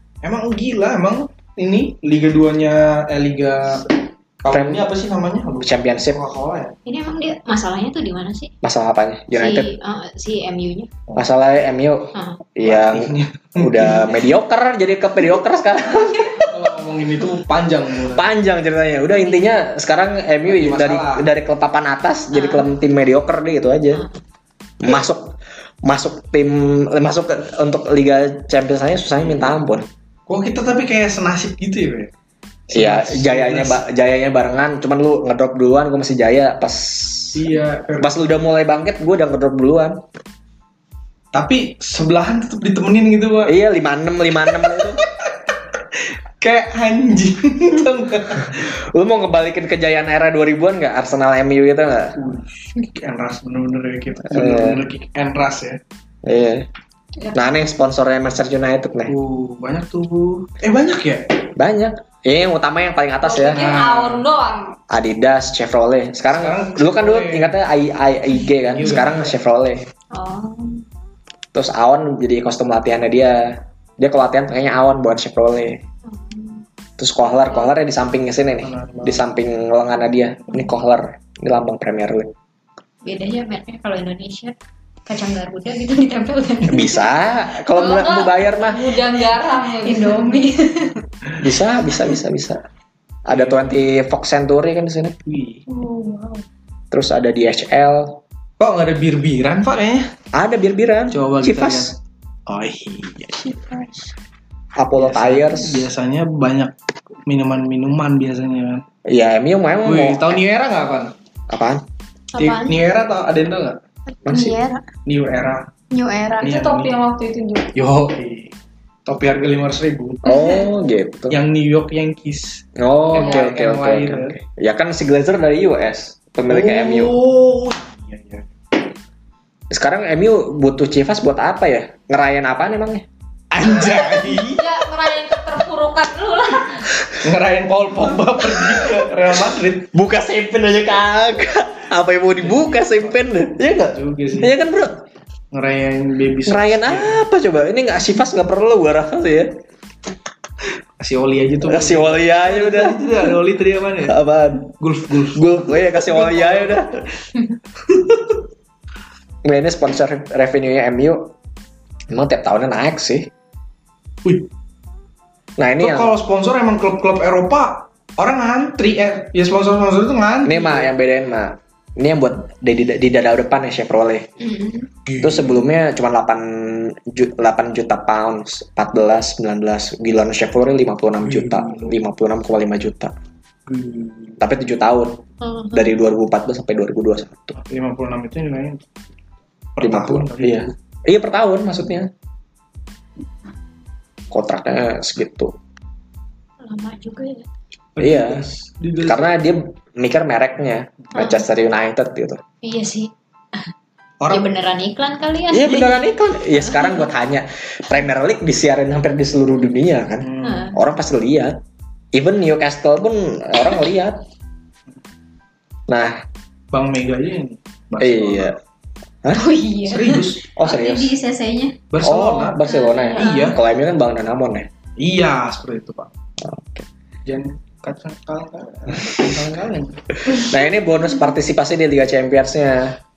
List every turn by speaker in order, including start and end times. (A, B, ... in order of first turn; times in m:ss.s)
0:00.2-0:06.7 A
0:04.5-0:04.8 B
0:05.6-0:06.2 B
0:06.8-0:08.5 C
0:08.6-0:09.7 B
0:09.3-0:10.9 C
0:11.2-0:16.5 B
0:12.1-0:12.4 C
0:12.6-0:14.2 A
0:16.5-0:18.2 A
0:18.1-0:24.0 B
0:20.5-0:21.3 A
0:22.3-0:22.7 C
0:24.8-0:29.9 B
0:30.3-0:32.1 A
0:32.7-0:33.8 A
0:32.7-0:37.4 B
0:37.3-0:38.2 A
0:38.0-0:40.0 B
0:41.3-0:43.6 A
0:43.4-0:45.0 B
0:44.6-0:45.3 A
0:45.9-0:48.7 A
0:48.5-0:52.2 B
0:52.2-0:55.8 A
0:54.3-0:54.8 B
0:56.2-0:56.7 B
0:57.3-0:59.1 B
0:59.1-1:01.4 A
1:01.6-1:03.8 B
1:03.2-1:04.8 D
1:03.5-1:04.3 A
1:04.9-1:09.8 B
1:06.3-1:07.5 A
1:08.7-1:09.3 A
1:10.1-1:10.8 C
1:11.5-1:15.8 B
1:16.1-1:16.6 C
1:17.0-1:22.3 B
1:18.6-1:19.2 A
1:23.0-1:24.5 C
1:25.1-1:27.1 C
1:26.7-1:29.0 B
1:27.8-1:30.4 D
1:29.8-1:31.0 C
1:31.4-1:32.6 B
1:33.2-1:35.2 B
1:33.3-1:33.8 A
1:35.3-1:35.6 A
1:35.7-1:36.4 D
1:36.9-1:38.2 B
1:38.6-1:40.1 A
1:40.3-1:42.0 B
1:41.1-1:42.0 A
1:42.5-1:43.2 A
1:42.6-1:43.1 B
1:44.8-1:45.9 B
1:45.0-1:46.7 A
1:47.3-1:48.8 A
1:49.0-1:50.4 B
1:49.8-1:51.1 A
1:51.5-1:51.8 B
1:52.3-1:52.8 C
1:52.4-1:53.8 A
1:54.2-1:54.6 B
1:54.2-1:54.8 C
1:55.0-1:55.7 A
1:55.9-1:56.5 C
1:56.4-1:57.7 D
1:56.4-1:57.0 A
1:57.7-1:58.5 A
1:59.0-2:00.2 A
2:00.2-2:01.4 B
2:00.3-2:00.6 C
2:01.3-2:04.4 A
2:02.8-2:07.2 B
2:06.5-2:08.4 A
2:09.7-2:13.0 B
2:13.5-2:14.6 A
2:13.7-2:14.1 B
2:14.3-2:16.9 D
2:17.2-2:19.9 A
2:18.5-2:19.0 B
2:19.9-2:25.0 B
2:22.4-2:23.1 A
2:23.8-2:24.5 A
2:25.5-2:27.2 A
2:26.4-2:29.5 B
2:31.0-2:34.2 A
2:31.6-2:33.3 B
2:34.0-2:34.7 B
2:34.8-2:36.8 A
2:35.3-2:37.0 B
2:39.4-2:41.3 B
2:42.1-2:43.3 B
2:45.6-2:46.1 B
2:45.8-2:50.9 A
2:50.4-2:54.3 B
2:54.4-2:54.9 C
2:55.0-2:55.6 A
2:55.2-3:03.1 B
3:01.2-3:01.9 A
3:03.7-3:04.4 A
3:04.4-3:07.5 B
3:05.4-3:05.9 C
3:07.5-3:08.8 A
3:09.8-3:10.7 A
3:09.8-3:12.1 B
3:14.3-3:15.5 B
3:16.6-3:17.5 C
3:18.0-3:19.4 A
3:18.0-3:18.4 B
3:19.0-3:22.4 B
3:21.1-3:21.4 C
3:22.6-3:23.6 C
3:24.2-3:24.5 A
3:24.3-3:27.0 C
3:25.5-3:31.6 B
3:30.2-3:30.7 A
3:30.4-3:30.8 C
3:32.1-3:34.2 B
3:35.9-3:36.2 B
3:36.7-3:38.6 A
3:38.0-3:38.6 B
3:39.3-3:41.8 C
3:39.9-3:40.4 A
3:40.5-3:41.1 B
3:41.9-3:42.6 A
3:42.0-3:44.7 B
3:42.7-3:43.4 D
3:43.1-3:43.5 C
3:43.2-3:43.6 A
3:45.0-3:46.1 A
3:46.4-3:46.9 B
3:47.2-3:50.0 A
3:50.2-3:53.0 B